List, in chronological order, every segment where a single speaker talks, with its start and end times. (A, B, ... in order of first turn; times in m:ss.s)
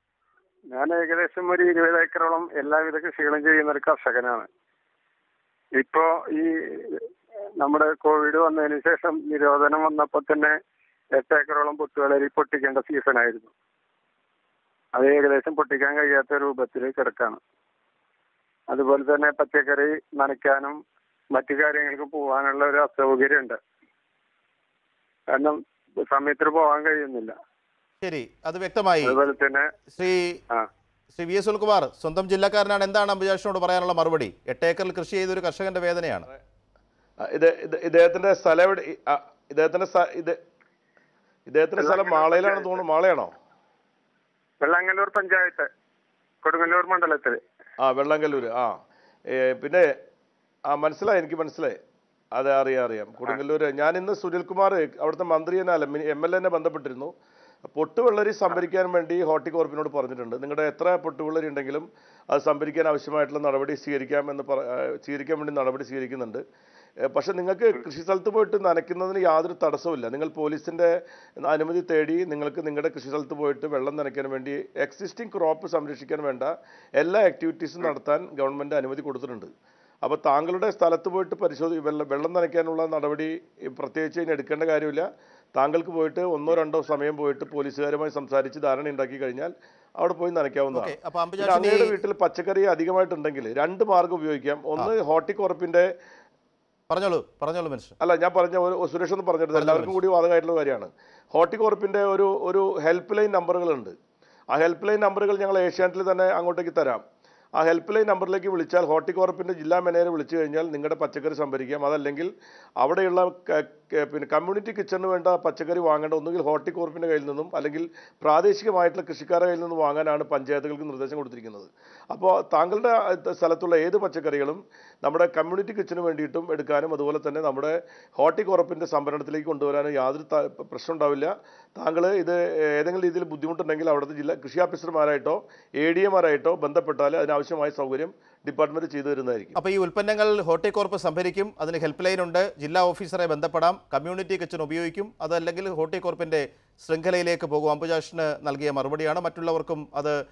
0:00.7-0:04.5 A
0:05.8-0:07.0 A
0:07.6-0:10.5 A
0:11.1-0:13.5 A
0:14.9-0:17.4 A
0:18.7-0:20.8 A
0:21.3-0:23.6 A
0:25.3-0:27.3 A
0:28.0-0:29.2 B
0:29.0-0:29.7 A
0:29.9-0:30.4 B
0:31.1-0:36.3 B
0:37.2-0:40.4 C
0:41.5-0:43.3 C
0:41.8-0:42.8 A
0:44.6-0:45.7 A
0:46.4-0:47.4 A
0:47.8-0:48.8 C
0:49.3-0:49.9 C
0:50.7-0:51.8 C
0:52.3-0:57.1 C
0:57.7-1:06.4 C
1:07.0-1:19.5 C
1:20.0-1:35.9 C
1:30.7-1:32.0 B
1:36.9-1:37.9 B
1:38.0-1:43.9 C
1:39.5-1:40.0 B
1:44.5-1:47.0 C
1:47.6-2:19.6 C
2:19.6-2:30.2 B